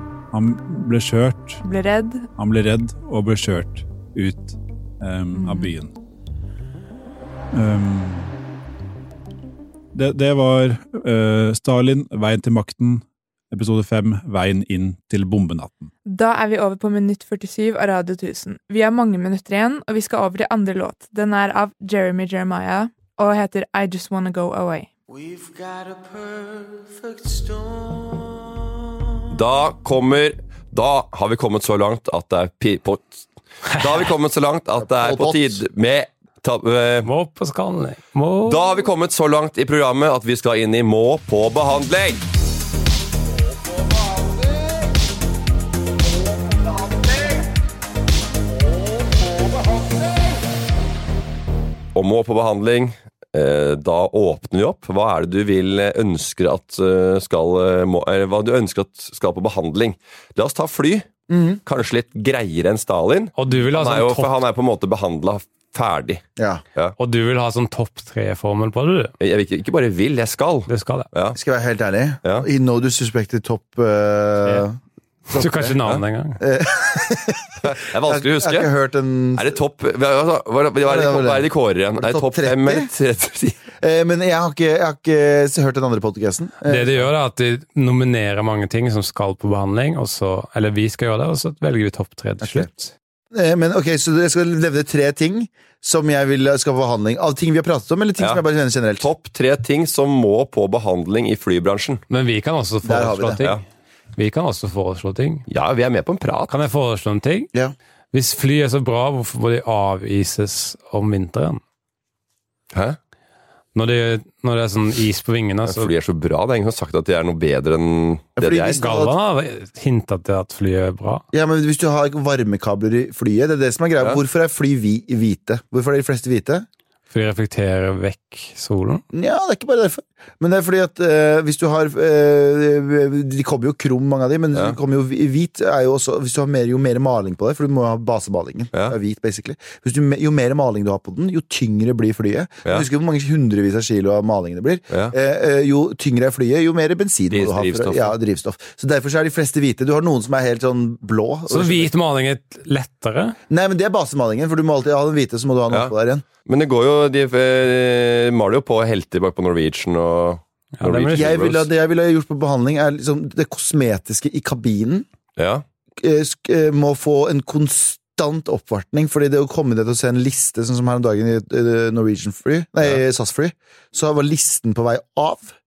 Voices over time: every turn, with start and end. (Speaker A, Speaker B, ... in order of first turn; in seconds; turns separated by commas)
Speaker A: 0.3-1.6, Speaker B: 1.6-2.3, Speaker A: 2.4-5.9, Speaker B: 5.3-5.7, Speaker A: 7.5-8.3, Speaker A: 9.9-15.9, Speaker B: 16.1-24.9, Speaker C: 29.3-37.1, Speaker D: 34.8-35.6, Speaker E: 37.0-38.6, Speaker C: 38.5-42.2, Speaker C: 52.0-61.1, Speaker D: 61.3-61.6, Speaker C: 61.6-66.2, Speaker E: 63.4-64.3, Speaker D: 66.4-66.6, Speaker E: 67.0-69.1, Speaker C: 69.2-71.4, Speaker E: 70.7-71.1, Speaker D: 71.3-74.8, Speaker D: 75.3-75.8, Speaker E: 75.3-76.4, Speaker D: 76.4-79.6, Speaker C: 77.6-78.7, Speaker C: 79.3-83.6, Speaker D: 80.8-82.9, Speaker D: 83.8-87.1, Speaker E: 86.6-92.9, Speaker D: 92.4-92.7, Speaker D: 93.3-99.1, Speaker C: 99.0-102.0, Speaker E: 102.1-103.6, Speaker D: 102.8-103.4, Speaker E: 104.2-105.5, Speaker C: 105.5-106.6, Speaker E: 106.5-107.5, Speaker E: 108.1-111.6, Speaker C: 112.7-113.0, Speaker E: 113.8-115.9, Speaker C: 115.7-118.8, Speaker D: 118.4-119.1, Speaker E: 118.8-121.2, Speaker D: 121.3-126.7, Speaker E: 127.1-129.0, Speaker D: 129.1-151.9, Speaker C: 147.3-148.2, Speaker E: 151.5-153.4, Speaker D: 153.5-156.2, Speaker C: 156.5-161.7, Speaker E: 160.8-161.4, Speaker D: 161.1-165.1, Speaker C: 165.4-165.6, Speaker D: 166.0-175.6